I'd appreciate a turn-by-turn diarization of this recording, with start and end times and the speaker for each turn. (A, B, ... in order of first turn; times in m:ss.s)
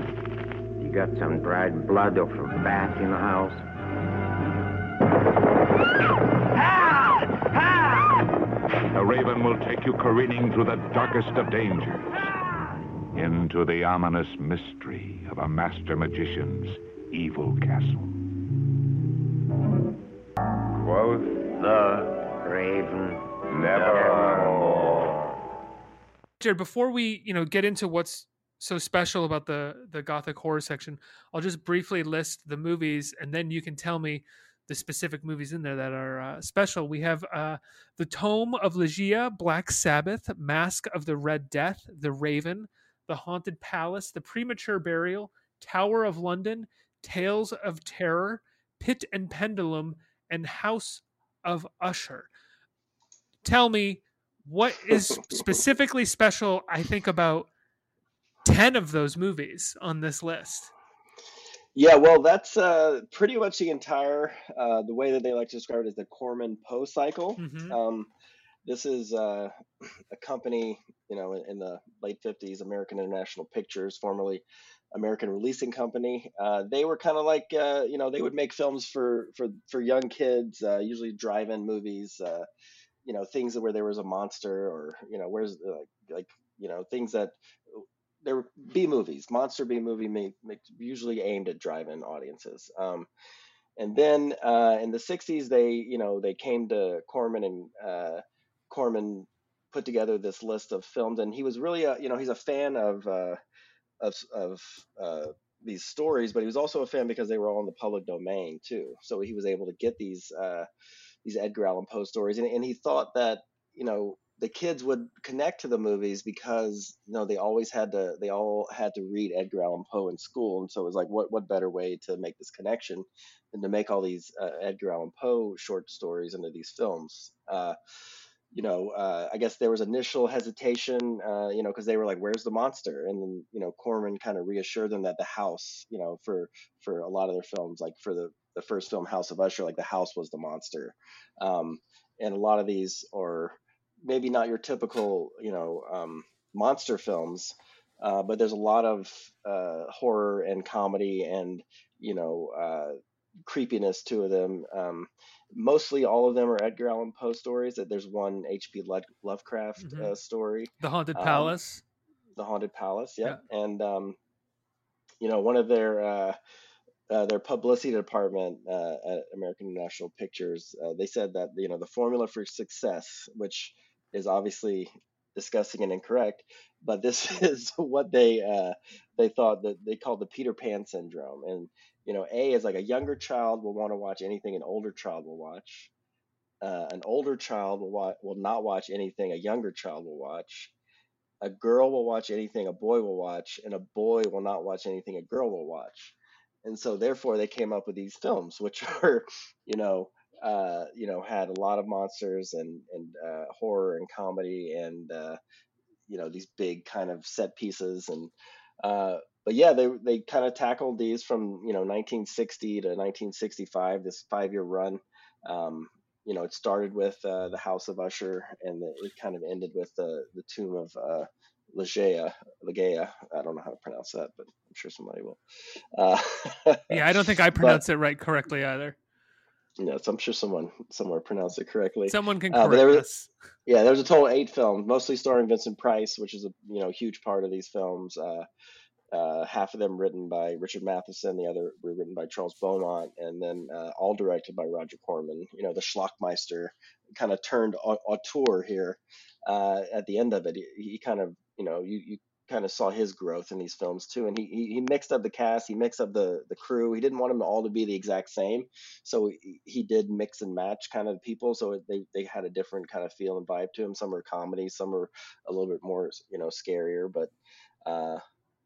0:00.8-0:03.6 A
0:08.9-0:12.3 B
0:13.1-0:18.1 B
0:21.0-0:21.2 B
0:21.6-0:25.1 A
0:23.5-0:25.0 B
0:26.4-0:52.3 C
0:53.4-0:57.5 C
0:58.4-1:00.7 C
1:01.7-1:08.1 D
1:07.4-1:07.8 C
1:08.6-1:09.6 D
1:10.1-1:22.4 D
1:23.0-1:33.1 D
1:33.8-1:43.4 D
1:44.0-1:50.7 D
1:51.2-2:07.8 D
2:08.5-2:41.5 D
2:39.8-2:40.1 C
2:40.8-2:41.8 C
2:42.4-2:44.2 D
2:45.2-2:46.4 D
2:47.1-3:05.9 D
3:06.6-3:10.7 D
3:11.4-3:25.4 D
3:26.1-3:45.4 D
3:45.9-3:47.8 D
3:46.9-3:49.0 C
3:49.8-3:53.0 D
3:52.1-3:53.3 C
3:53.6-3:58.4 D
3:59.1-4:27.3 D
4:27.8-4:28.2 D